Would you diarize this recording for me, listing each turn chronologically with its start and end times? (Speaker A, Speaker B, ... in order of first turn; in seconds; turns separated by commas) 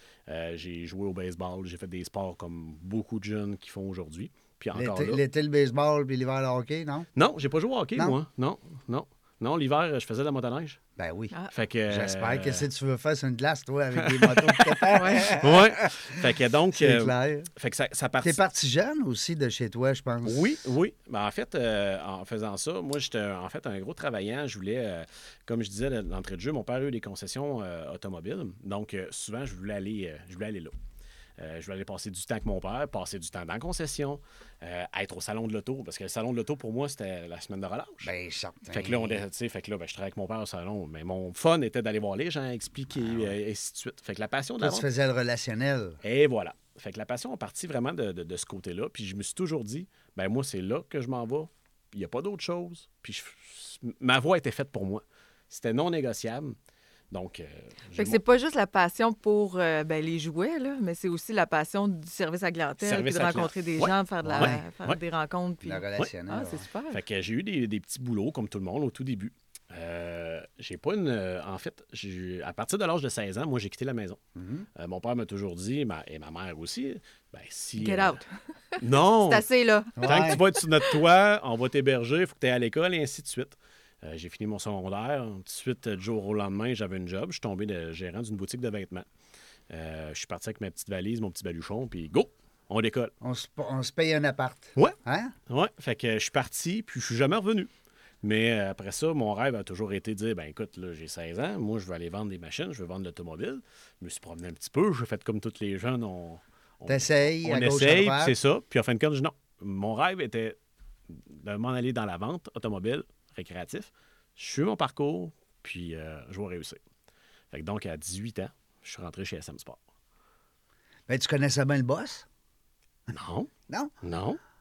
Speaker A: 0.3-5.2, Speaker B: 4.7-7.1, Speaker A: 7.2-10.8, Speaker B: 11.0-11.3, Speaker A: 11.5-12.7, Speaker B: 11.9-16.0, Speaker A: 13.9-18.4, Speaker C: 14.9-15.3, Speaker B: 16.7-17.5, Speaker B: 18.2-20.5, Speaker A: 20.2-30.7, Speaker A: 31.4-38.1, Speaker B: 38.0-39.2, Speaker A: 38.7-44.9, Speaker B: 44.6-46.0, Speaker A: 46.0-56.6, Speaker A: 57.1-58.2, Speaker C: 58.0-67.0, Speaker A: 62.8-65.0, Speaker B: 64.3-64.6, Speaker B: 65.7-66.7, Speaker A: 66.9-74.2, Speaker B: 74.4-74.7, Speaker A: 74.8-78.2, Speaker C: 77.8-80.9, Speaker A: 78.8-79.5, Speaker B: 80.0-80.4, Speaker A: 80.0-89.1, Speaker A: 89.7-93.1, Speaker B: 93.2-95.3, Speaker A: 95.5-97.7, Speaker A: 98.2-110.6, Speaker B: 106.9-108.4, Speaker A: 111.1-116.8, Speaker A: 117.5-119.8, Speaker B: 121.1-122.3, Speaker A: 123.1-123.5, Speaker A: 124.0-124.4